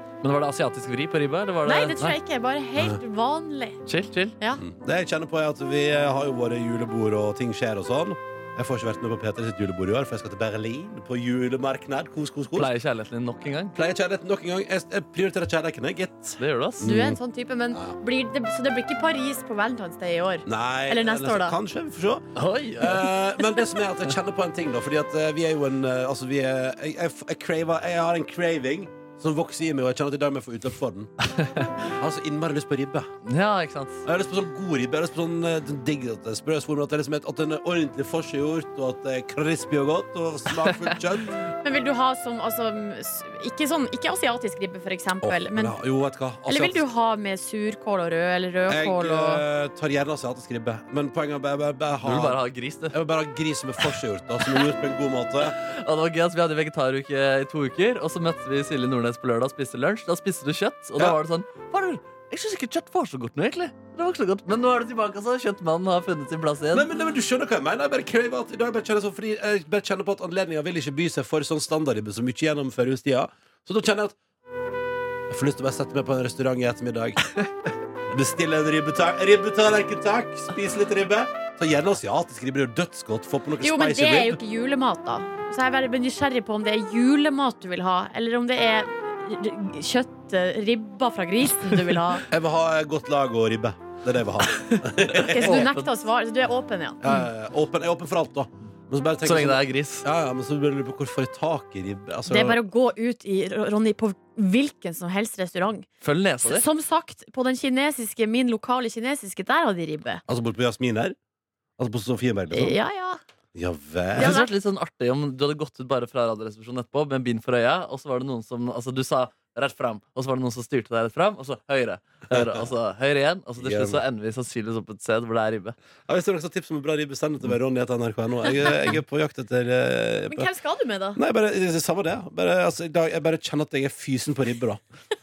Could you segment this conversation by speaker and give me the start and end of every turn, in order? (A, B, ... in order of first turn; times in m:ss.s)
0:00.2-0:02.2 A
0:01.6-0:03.8 B
0:03.9-0:04.4 A
0:04.6-0:12.7 C
0:12.6-0:13.8 A
0:13.8-0:17.2 C
0:16.4-0:16.9 A
0:16.8-0:21.6 B
0:20.5-0:31.1 C
0:22.4-0:23.1 A
0:31.4-0:31.7 A
0:32.0-0:33.1 C
0:33.2-0:34.0 A
0:34.1-0:41.4 C
0:41.6-0:45.8 B
0:45.2-0:46.9 C
0:46.5-0:49.4 B
0:48.7-0:52.4 C
0:52.0-0:53.0 A
0:52.9-0:55.6 C
0:55.6-1:06.9 A
1:06.7-1:14.2 C
1:15.3-1:17.3 C
1:18.1-1:24.4 C
1:23.6-1:32.2 B
1:32.3-1:35.7 C
1:34.5-1:35.9 A
1:35.3-1:37.0 B
1:37.0-1:42.6 C
1:39.2-1:40.1 A
1:42.3-1:45.9 B
1:46.0-1:46.6 A
1:46.4-1:50.2 B
1:50.3-1:51.2 C
1:51.8-1:52.8 C
1:52.5-1:53.2 B
1:53.5-1:54.4 C
1:54.2-1:54.5 B
1:54.2-2:05.8 A
2:02.3-2:02.6 C
2:03.6-2:04.0 C
2:06.1-2:10.5 C
2:10.3-2:11.2 B
2:11.2-2:14.8 C